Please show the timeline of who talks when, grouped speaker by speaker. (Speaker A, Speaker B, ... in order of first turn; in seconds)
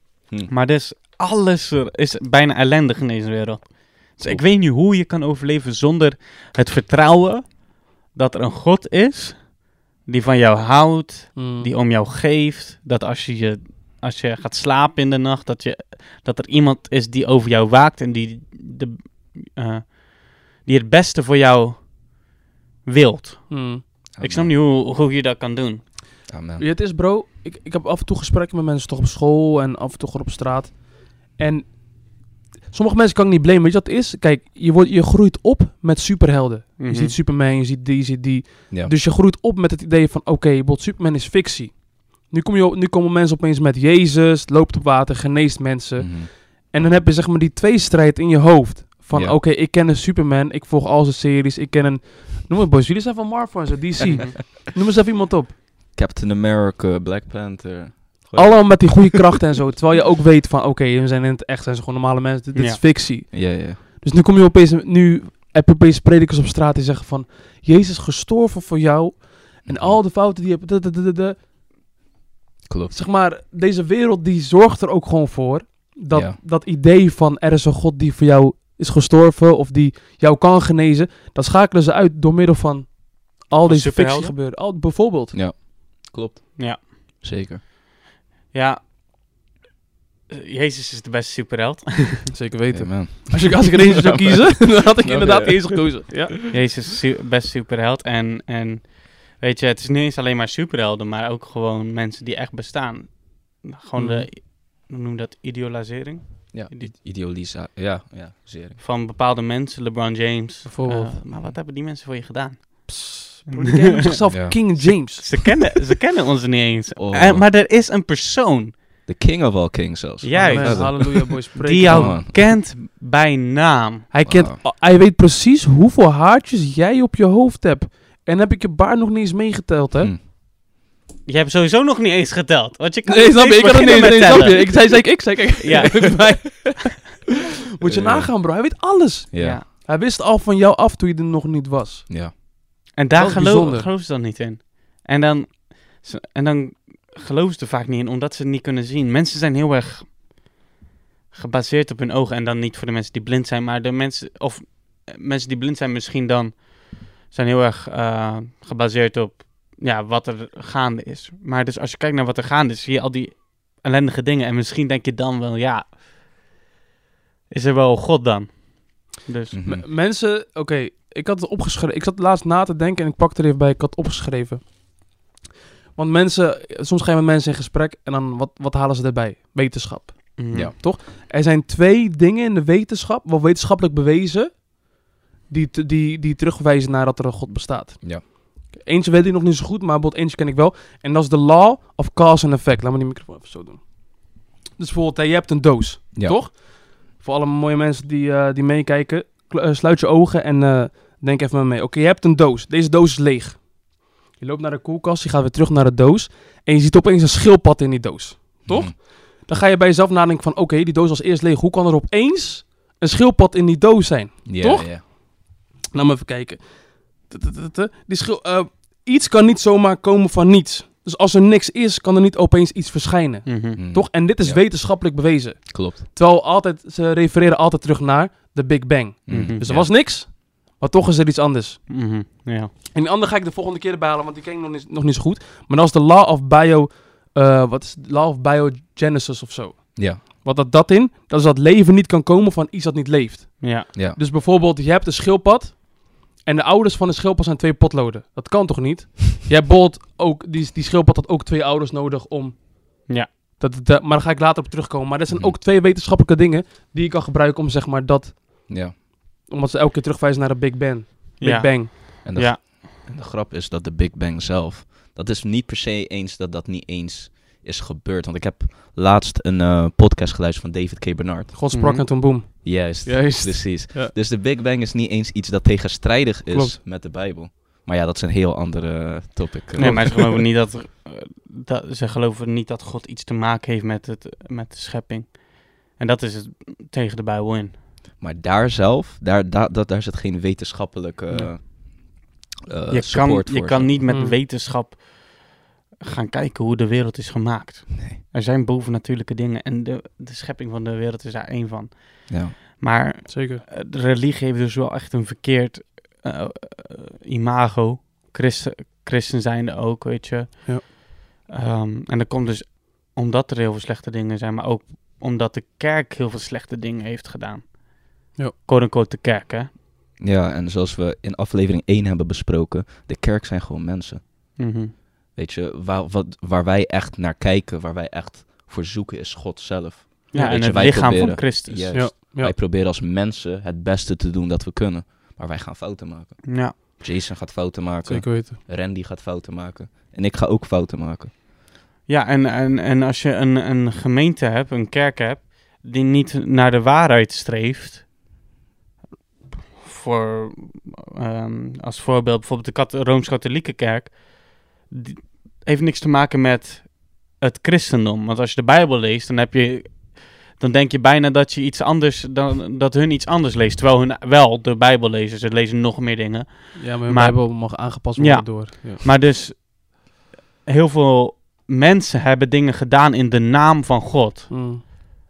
Speaker A: 0.5-22.0, 22.9-25.9, 36.8-37.2, 54.1-54.4, 62.5-62.8, 83.7-84.3, 86.6-86.9, 88.5-88.8, 90.3-92.4, 96.5-106.9, 108.8-114.2, 114.8-118.8, 120.2-124.5, 131.3-136.7, 139.4-139.6, 142.9-150.1, 151.3-165.9, 167.5-169.6, 180.4-180.7, 223.5-223.8, 229.3-229.6, 231.9-232.7, 243.6-243.9, 261.4-262.6, 271.7-272.1, 279.8-287.8, 292.9-311.0, 311.5-317.8, 318.6-319.7, 324.6-324.9, 330.3-332.0, 336.5-336.8, 342.1-348.1, 349.8-369.7, 370.6-374.5
Speaker B: 11.3-11.7, 23.5-23.8, 26.6-55.6, 58.4-71.4, 72.9-85.4, 92.3-96.3, 104.0-104.3, 110.7-111.2, 112.9-115.6, 120.4-122.2, 124.2-130.1, 133.1-137.2, 137.8-142.4, 143.1-143.9, 169.7-174.7, 176.0-184.7, 185.5-231.9, 232.9-258.9, 259.5-261.9, 271.5-274.1, 276.5-276.8, 279.8-280.4, 294.1-294.4, 303.3-303.6, 330.3-330.6, 331.9-332.5, 338.1-338.6, 366.8-369.0, 374.5-374.8
Speaker C: 24.1-24.5, 26.3-26.6, 46.0-46.3, 49.1-49.4, 55.9-59.2, 63.3-63.8, 69.7-70.0, 72.7-73.0, 76.1-76.4, 85.3-87.6, 92.7-96.2, 106.5-108.8, 114.3-115.0, 117.0-117.5, 119.1-122.4, 124.3-124.6, 137.8-138.4, 139.3-139.6, 169.5-169.8, 196.1-196.4, 208.7-208.9, 214.5-215.1, 223.8-224.7, 225.7-226.0, 229.3-230.0, 240.0-240.2, 243.9-244.2, 255.3-255.6, 258.7-258.9, 262.2-271.6, 272.6-280.2, 288.2-294.0, 302.3-302.6, 320.2-324.2, 325.4-341.3